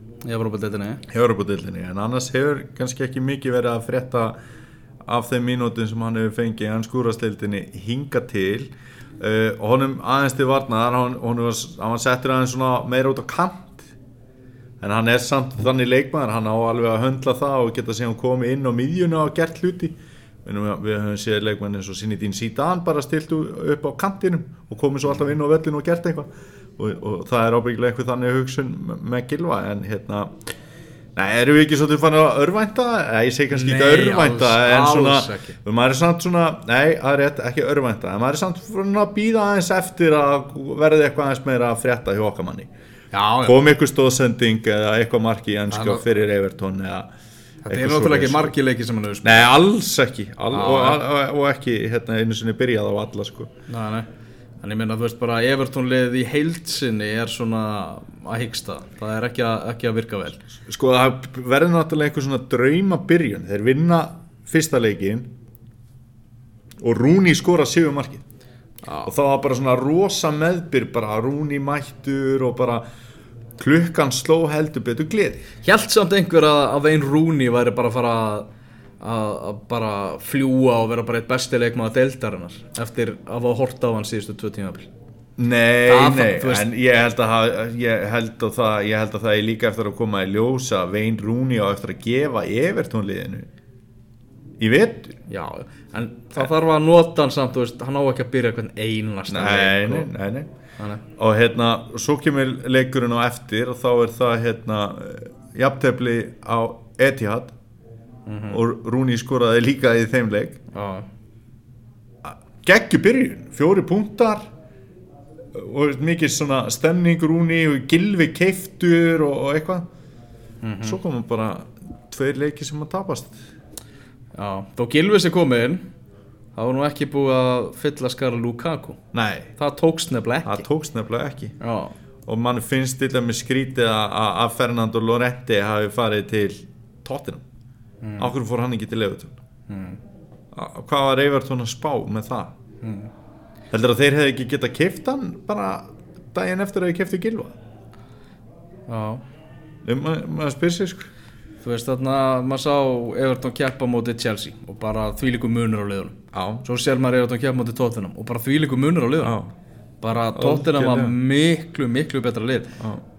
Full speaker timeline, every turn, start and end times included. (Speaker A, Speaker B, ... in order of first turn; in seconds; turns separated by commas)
Speaker A: 0.2-1.0, Speaker B: 1.1-4.3, Speaker B: 5.0-13.9, Speaker B: 14.8-30.4, Speaker B: 31.1-42.7, Speaker A: 33.5-35.5, Speaker A: 43.1-43.5, Speaker B: 43.4-47.1, Speaker A: 45.7-46.0, Speaker A: 47.6-49.5, Speaker B: 47.7-48.5, Speaker B: 49.2-53.5, Speaker A: 50.5-51.0, Speaker A: 53.7-54.1, Speaker A: 54.6-60.4, Speaker B: 60.6-65.3, Speaker B: 66.8-68.2, Speaker A: 68.8-69.1, Speaker B: 69.1-72.8, Speaker B: 73.6-75.4, Speaker A: 75.6-78.5, Speaker A: 79.0-84.9, Speaker B: 85.4-93.5, Speaker A: 85.8-86.7, Speaker B: 94.6-95.2, Speaker A: 95.3-100.1, Speaker B: 99.3-100.5, Speaker B: 101.2-107.5, Speaker A: 108.2-108.6, Speaker B: 108.5-110.6, Speaker A: 110.7-111.1, Speaker B: 112.2-114.5, Speaker B: 115.5-119.8, Speaker A: 120.6-121.0, Speaker B: 120.8-123.4, Speaker A: 124.3-125.8, Speaker A: 126.5-129.0, Speaker B: 129.1-129.5, Speaker A: 129.6-130.6, Speaker B: 130.4-131.6, Speaker A: 131.6-131.9, Speaker B: 132.2-137.4, Speaker A: 138.0-138.3, Speaker B: 138.2-139.3, Speaker A: 139.7-140.0, Speaker B: 140.5-142.5, Speaker A: 142.8-143.1, Speaker B: 143.7-147.5, Speaker A: 148.9-149.2, Speaker B: 149.8-151.1, Speaker A: 151.6-159.4, Speaker B: 156.3-156.6, Speaker B: 159.2-159.5, Speaker A: 160.0-162.8, Speaker B: 160.3-161.2